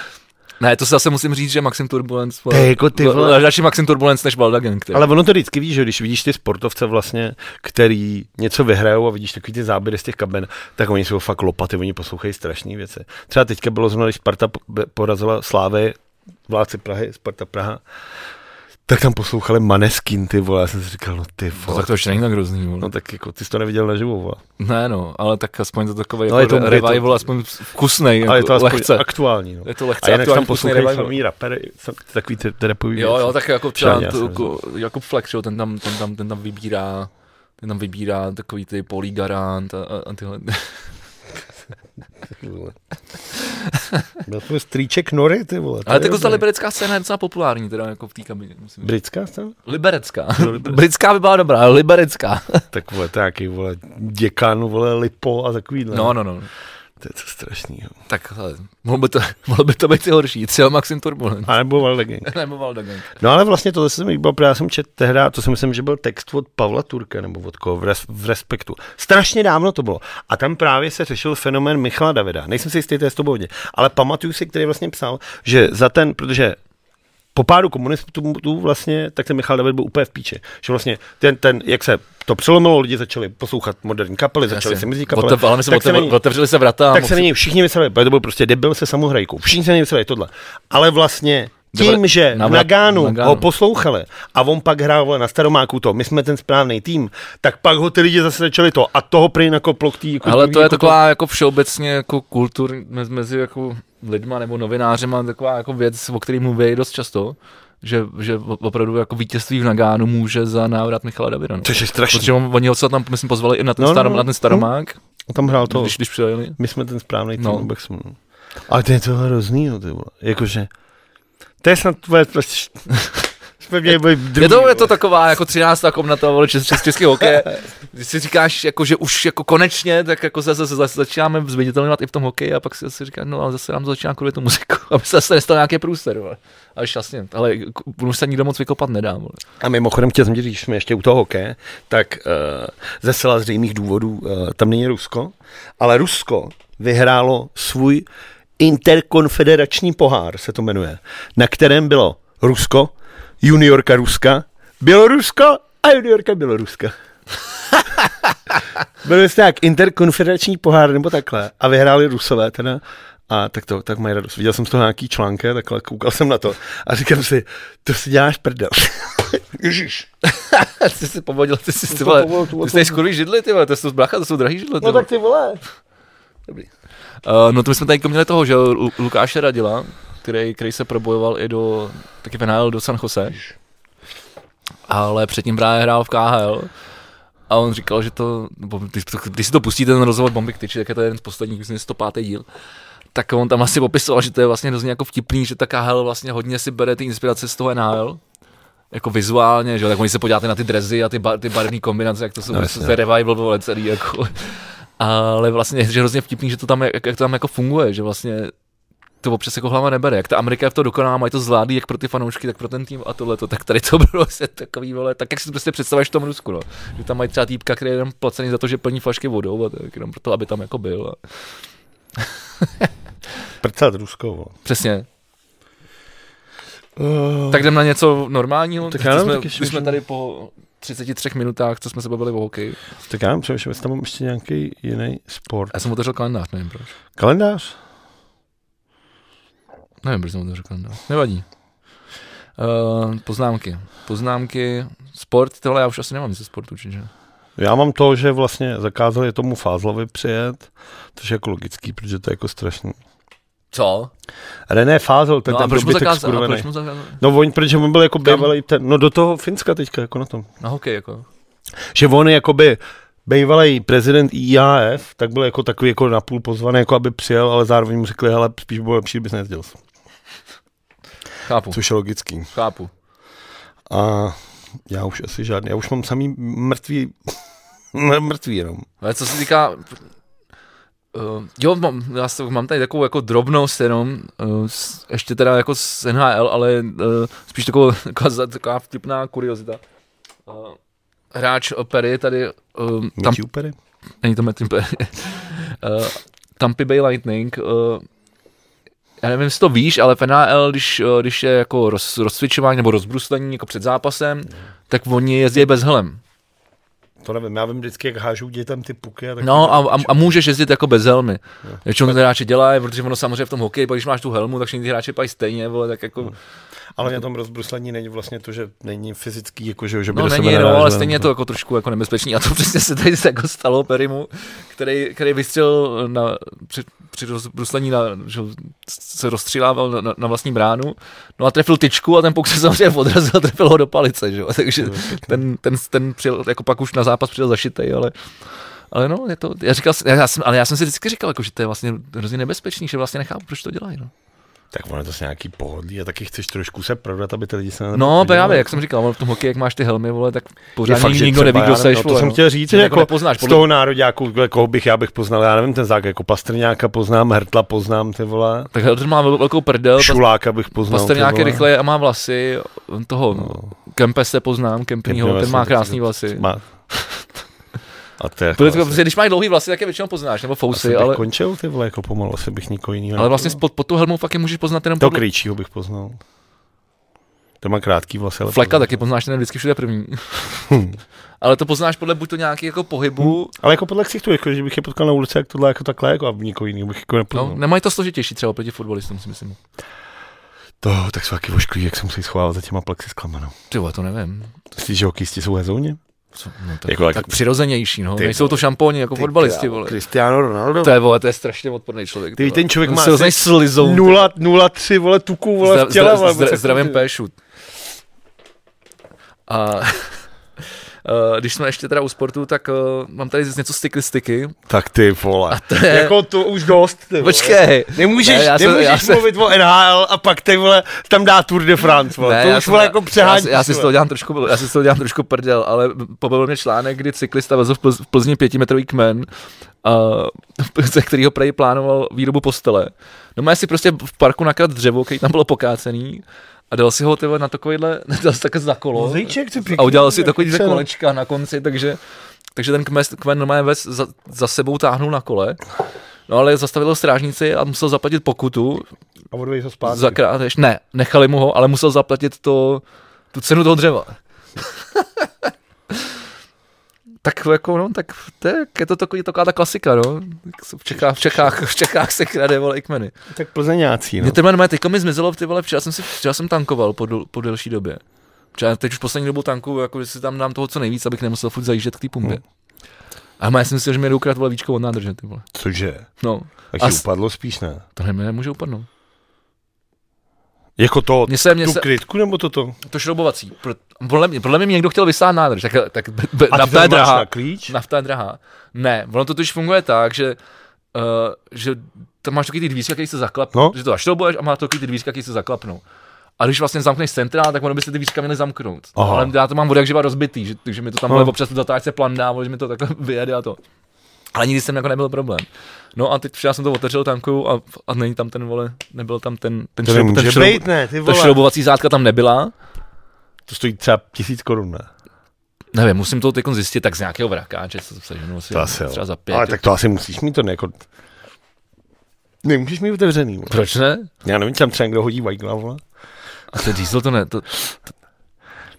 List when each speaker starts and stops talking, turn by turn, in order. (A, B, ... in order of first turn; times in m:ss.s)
0:00.6-0:05.1 A
0:02.5-0:03.4 B
0:04.9-0:17.8 B
0:18.9-0:22.0 B
0:21.6-0:22.9 A
0:22.8-0:24.4 B
0:24.6-0:29.0 A
0:26.3-0:27.3 B
0:28.2-0:34.5 B
0:29.6-0:31.2 A
0:33.0-0:40.8 A
0:42.3-0:42.8 B
0:43.7-0:44.0 A
0:44.2-0:46.4 B
0:45.9-0:48.9 A
0:48.8-0:49.6 B
0:49.7-0:52.7 A
0:50.4-0:50.8 B
0:52.7-0:56.2 B
0:55.9-0:56.5 A
0:57.0-0:58.0 B
0:58.1-1:01.5 A
1:01.5-1:02.3 B
1:02.3-1:03.1 A
1:03.2-1:16.6 B
1:17.4-1:26.2 B
1:24.5-1:27.3 A
1:26.9-1:41.0 B
1:31.7-1:33.4 A
1:40.2-1:55.0 A
1:51.6-1:52.3 B
1:53.8-1:54.7 B
1:55.3-1:56.0 B
1:55.6-1:56.6 A
1:56.6-1:58.2 B
1:57.4-1:57.7 A
1:58.7-2:00.7 B
2:01.6-2:02.9 B
2:03.6-2:04.9 B
2:04.4-2:19.4 A
2:19.6-2:28.1 B
2:28.6-2:36.9 B
2:39.0-2:50.1 B
2:50.2-2:55.1 A
2:51.9-2:53.0 B
2:54.8-2:55.6 B
2:57.2-3:03.4 A
3:04.9-3:06.7 A
3:07.5-3:12.5 A
3:13.1-3:18.2 A
3:18.9-3:28.5 A
3:22.5-3:23.0 B
3:29.2-3:41.2 A
3:42.2-3:42.9 A
3:43.6-3:44.5 B
3:44.6-3:45.1 A
3:47.0-3:47.7 B
3:47.5-3:52.8 A
3:48.8-3:50.0 B
3:53.1-3:55.8 B
3:55.7-3:56.9 A
3:57.2-3:57.8 B
4:00.0-4:01.5 A
4:02.6-4:07.1 A
4:07.6-4:13.0 B
4:13.7-4:14.1 A
4:14.7-4:16.7 B
4:15.5-4:17.2 A
4:17.2-4:20.5 B
4:18.2-4:18.5 A
4:20.6-4:21.3 A
4:21.9-4:29.8 B
4:31.5-4:31.8 A
4:31.7-4:32.5 B
4:32.5-4:32.9 A
4:33.9-4:34.4 B
4:34.9-4:37.3 B
4:37.9-4:38.9 B
4:39.0-4:40.0 A
4:41.1-4:49.8 A
4:50.5-4:50.8 A
4:51.3-4:53.4 A
4:53.2-4:53.8 B
4:54.2-4:58.0 A
4:59.2-5:06.2 A
5:07.2-5:10.4 B
5:09.4-5:16.4 A
5:17.0-5:21.3 B
5:20.1-5:38.1 A
5:34.8-5:35.4 B
5:38.9-5:44.1 A
5:44.7-5:48.8 B
5:47.9-5:53.6 A
5:50.8-5:58.7 B
5:58.7-6:00.2 A
6:00.0-6:01.7 B
6:00.8-6:07.2 A
6:03.4-6:03.7 B
6:05.1-6:06.6 B
6:08.2-6:09.0 B
6:08.6-6:11.2 A
6:10.7-6:13.6 B
6:13.2-6:15.2 A
6:15.0-6:16.2 B
6:17.6-6:19.0 B
6:18.5-6:20.7 A
6:20.7-6:21.0 B
6:21.4-6:23.5 A
6:23.2-6:27.6 B
6:27.3-6:29.6 A
6:30.8-6:33.5 B
6:33.7-6:34.6 A
6:34.8-6:36.0 B
6:36.4-6:40.0 A
6:36.8-6:37.4 B
6:38.2-6:38.6 B
6:39.2-6:40.9 B
6:40.8-6:44.3 A
6:42.4-6:47.0 B
6:45.6-6:47.3 A
6:49.5-6:50.2 A
6:51.0-6:54.6 A
6:54.7-7:03.9 B
6:55.5-6:56.2 A
6:57.2-6:59.3 A
7:02.2-7:09.3 A
7:09.8-7:22.0 A
7:19.0-7:20.8 B
7:22.6-7:25.6 A
7:26.3-7:28.9 A
7:29.3-7:30.2 B
7:29.8-7:36.2 A
7:37.2-7:43.1 A
7:41.0-7:41.5 B
7:43.3-7:44.4 B
7:44.2-7:48.0 A
7:48.5-7:52.4 A
7:53.4-7:55.5 A
7:55.5-7:56.1 B
7:56.2-7:57.0 A
7:56.7-7:57.8 B
7:58.0-7:58.9 A
8:00.8-8:02.8 B
8:01.3-8:01.9 A
8:02.8-8:10.4 A
8:06.5-8:07.7 B
8:10.9-8:15.8 A
8:16.4-8:23.6 A
8:19.0-8:19.3 B
8:24.3-8:32.5 A
8:29.8-8:31.4 B
8:33.5-8:34.9 B
8:35.7-8:39.6 A
8:38.5-8:40.8 B
8:42.4-8:43.6 B
8:43.5-8:44.1 A
8:44.2-8:45.8 B
8:46.5-8:47.8 A